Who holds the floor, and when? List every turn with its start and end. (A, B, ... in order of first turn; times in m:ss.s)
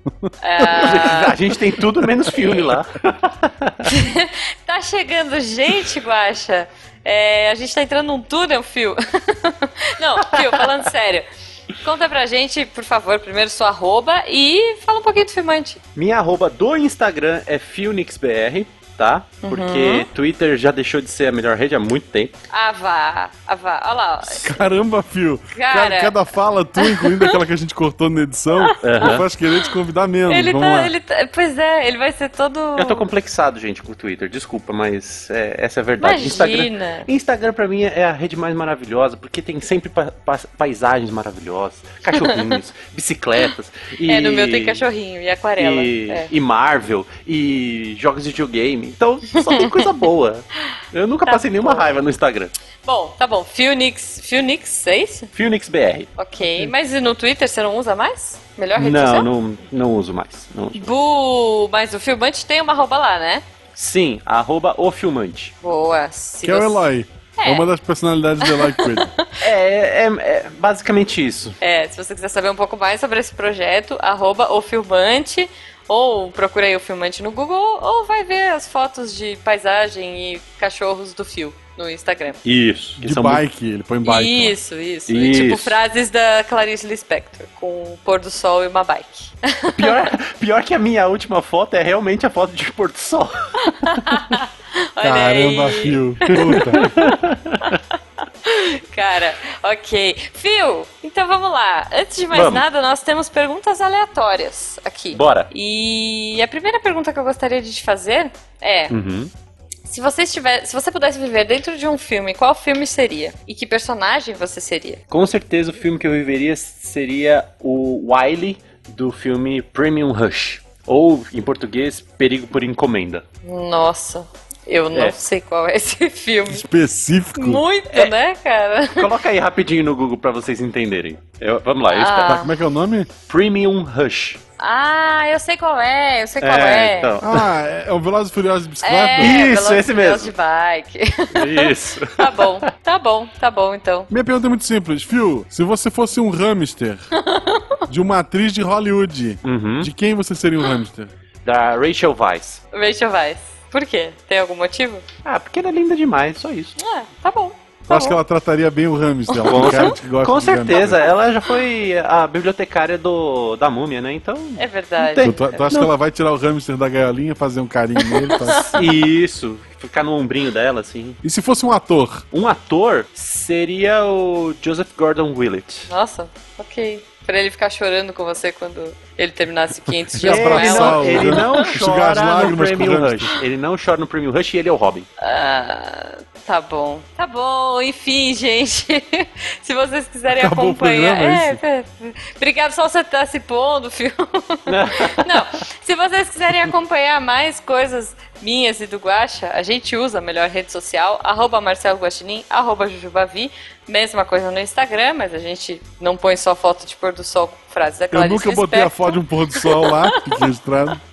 0:00.2-0:01.0 A
0:00.4-0:01.4 B
0:00.8-0:03.9 C
0:01.5-0:02.1 A
0:02.3-0:02.7 B
0:03.8-0:11.3 B
0:10.2-0:10.8 C
0:11.8-0:15.8 B
0:16.0-0:22.4 C
0:19.4-0:20.1 B
0:22.5-0:24.6 B
0:24.3-0:30.9 A
0:25.5-0:26.2 B
0:26.8-0:27.4 B
0:28.6-0:29.1 B
0:28.8-0:29.2 C
0:30.3-0:33.1 B
0:32.8-0:44.8 C
0:36.0-0:37.1 B
0:42.1-0:42.6 B
0:44.1-0:46.3 B
0:45.6-0:52.5 C
0:49.4-0:49.9 B
0:51.3-0:52.0 B
0:52.8-0:55.3 B
0:55.4-0:56.1 C
0:56.2-0:59.3 B
0:56.4-0:56.7 A
0:58.8-1:00.9 C
1:00.8-1:03.4 B
1:03.8-1:05.5 C
1:05.6-1:06.8 B
1:06.4-1:09.1 A
1:07.4-1:07.7 B
1:08.4-1:09.3 B
1:09.4-1:11.6 C
1:11.6-1:22.4 B
1:22.4-1:23.4 C
1:23.0-1:24.6 A
1:24.0-1:30.1 B
1:25.1-1:25.8 C
1:29.8-1:34.3 C
1:33.7-1:37.8 B
1:35.0-1:37.0 A
1:36.4-1:37.8 C
1:38.4-1:48.9 B
1:42.3-1:42.6 C
1:45.1-1:45.5 C
1:48.9-1:49.3 C
1:49.9-1:55.0 B
1:55.1-2:03.2 C
2:03.4-2:06.7 B
2:06.5-2:07.6 A
2:07.4-2:09.1 B
2:09.0-2:12.4 C
2:11.9-2:12.5 B
2:12.2-2:13.1 A
2:13.3-2:14.4 C
2:14.6-2:17.2 B
2:16.4-2:17.5 C
2:17.2-2:19.4 A
2:18.8-2:24.1 B
2:19.2-2:20.3 C
2:21.4-2:22.6 C
2:24.1-2:27.1 A
2:27.1-2:27.8 B
2:27.9-2:31.1 A
2:29.4-2:29.9 C
2:31.4-2:32.6 C
2:32.7-2:35.0 B
2:35.2-2:36.8 C
2:36.8-2:38.2 B
2:37.9-2:41.0 A
2:39.3-2:40.0 B
2:39.4-2:45.9 C
2:44.6-2:45.6 B
2:45.2-2:48.9 A
2:48.0-2:48.9 B
2:48.7-2:51.2 C
2:51.2-2:52.2 A
2:52.3-2:55.9 C
2:55.9-3:01.6 B
3:00.1-3:03.3 A
3:00.2-3:05.1 C
3:05.2-3:30.4 B
3:10.3-3:11.6 A
3:14.7-3:15.4 C
3:28.1-3:31.0 A